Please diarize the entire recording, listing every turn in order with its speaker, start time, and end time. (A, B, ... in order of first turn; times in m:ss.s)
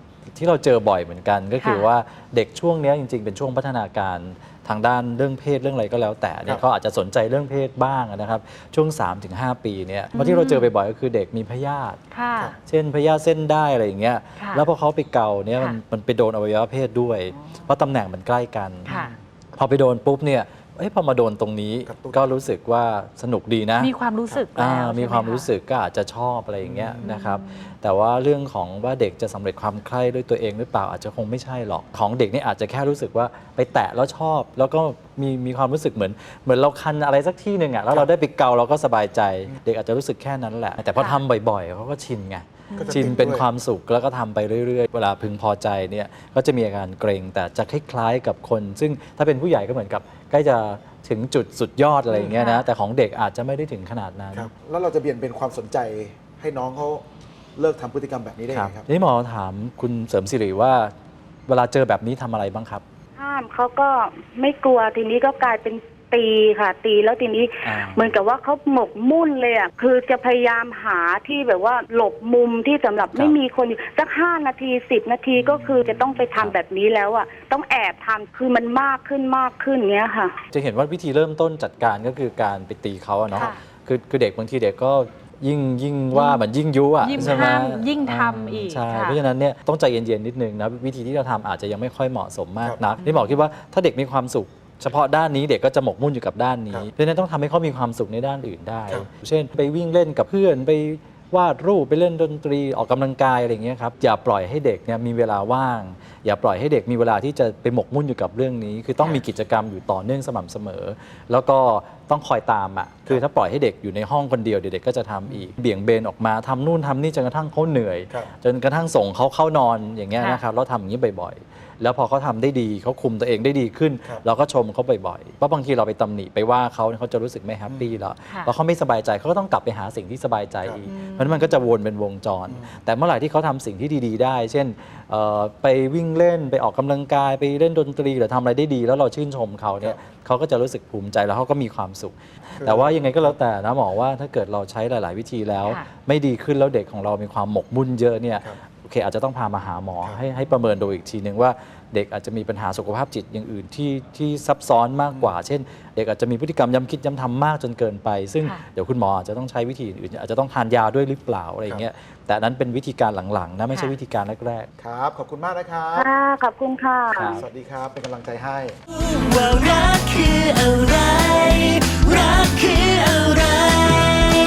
0:00.2-0:12.0 A
0:01.6-0:01.9 B
0:10.1-0:10.7 B
0:12.1-0:12.5 B
0:12.6-0:18.9 A
0:14.4-0:14.7 B
0:18.9-0:19.1 B
0:18.9-0:19.2 C
0:19.6-0:23.9 A
0:21.9-0:22.2 C
0:23.8-0:25.5 B
0:24.5-0:54.5 A
0:26.6-0:27.1 C
0:27.0-0:27.7 B
0:41.0-0:41.2 B
0:42.7-0:43.3 B
0:42.8-0:43.4 C
0:52.1-0:52.6 B
0:54.3-0:57.0 C
0:57.6-0:58.8 C
0:58.5-1:00.9 A
1:01.5-1:02.8 A
1:03.2-1:20.4 D
1:07.6-1:08.1 A
1:15.4-1:16.2 C
1:20.5-2:44.7 A
1:23.3-1:23.6 B
1:26.1-1:26.4 B
1:27.0-1:29.2 B
1:33.0-1:33.3 B
2:10.9-2:11.6 B
2:22.6-2:23.3 C
2:25.6-2:25.9 B
2:44.8-2:46.1 C
2:45.9-2:47.4 D
2:47.2-2:47.4 A
2:47.4-2:48.8 C
2:49.2-2:54.1 E